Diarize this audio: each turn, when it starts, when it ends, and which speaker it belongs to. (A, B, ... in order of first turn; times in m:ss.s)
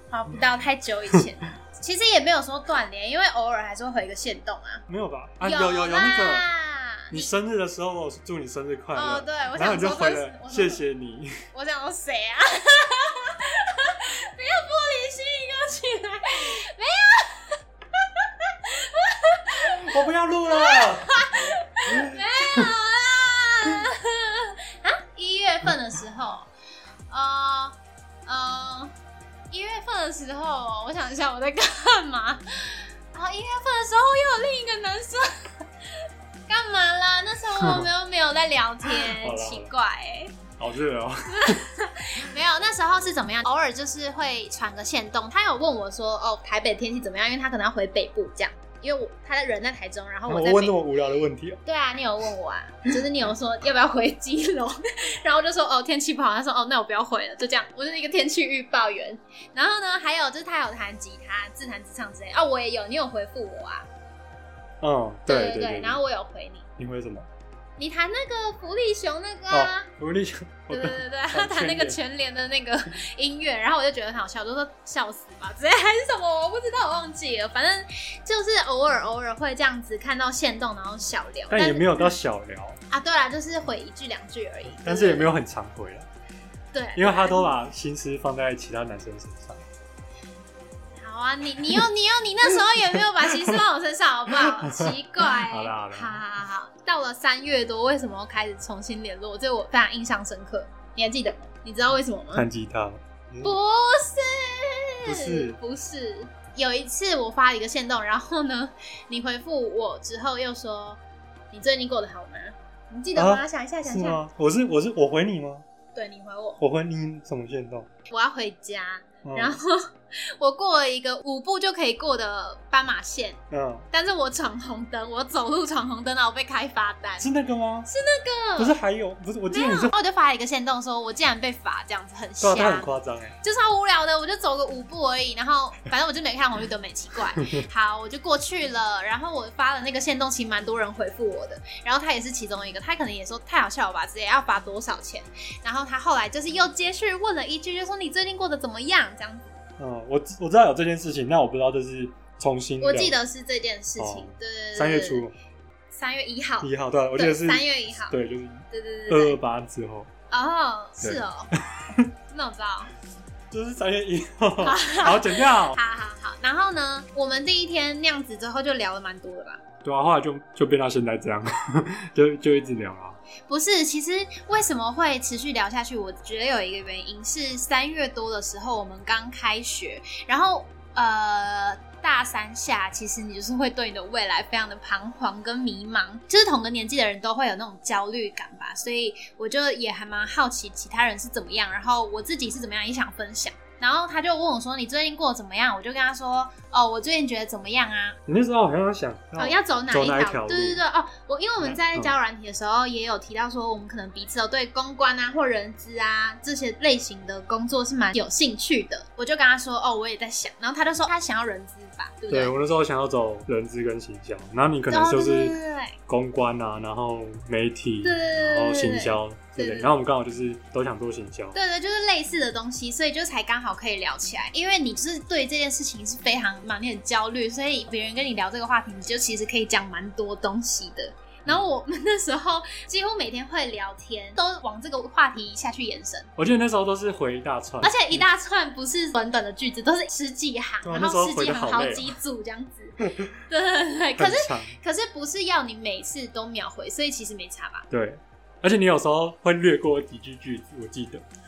0:00.1-0:04.8 A
0:04.9-0:06.5 B
0:05.4-0:07.3 A
0:07.1-0:11.4 B
0:09.0-0:10.8 A
0:11.5-0:26.5 A
0:19.6-0:22.7 B
0:27.1-0:27.8 A
0:28.3-0:28.9 A
0:29.5-0:35.6 A
0:36.5-0:40.4 A
0:37.6-0:37.9 B
0:38.9-0:39.7 B
0:40.6-0:41.6 B
0:41.3-0:50.8 A
0:50.3-0:51.6 B
0:51.7-1:03.9 A
1:04.8-1:06.0 B
1:05.3-1:06.7 A
1:06.8-1:07.3 B
1:07.8-1:09.9 A
1:09.5-1:12.0 B
1:10.7-1:22.1 A
1:21.5-1:22.8 B
1:22.9-1:25.3 A
1:24.8-1:26.1 B
1:26.7-1:27.5 A
1:27.0-1:29.6 B
1:31.0-1:42.5 A
1:33.3-1:33.6 B
1:34.5-1:36.2 B
1:42.4-1:43.6 B
1:43.4-1:51.0 A
1:45.1-1:45.6 B
1:51.5-1:54.2 A
1:53.2-1:55.6 B
1:56.0-1:56.6 A
1:56.6-1:57.9 B
1:58.1-2:03.4 A
1:59.2-1:59.6 B
2:03.5-2:03.9 B
2:03.9-2:07.3 A
2:07.2-2:07.9 B
2:07.9-2:08.8 A
2:08.6-2:10.0 B
2:09.5-2:29.6 A
2:12.4-2:13.4 B
2:29.8-2:33.2 B
2:32.8-2:35.2 A
2:34.0-2:35.4 B
2:35.9-2:38.2 A
2:36.6-2:40.1 B
2:38.7-2:39.4 A
2:40.3-2:41.5 A
2:41.0-2:42.1 B
2:42.3-2:42.9 A
2:43.5-2:45.8 B
2:44.6-2:49.6 A
2:49.8-2:53.2 B
2:53.5-3:18.2 A
3:18.3-3:20.8 B
3:19.4-3:32.6 A
3:21.6-3:22.1 B
3:32.3-3:41.6 B
3:34.9-3:36.0 A
3:38.0-3:39.9 A
3:41.5-3:56.3 A
3:56.4-3:58.2 B
3:57.8-4:07.9 A
4:00.8-4:02.2 B
4:03.0-4:03.3 B
4:04.2-4:04.8 B
4:07.9-4:11.2 B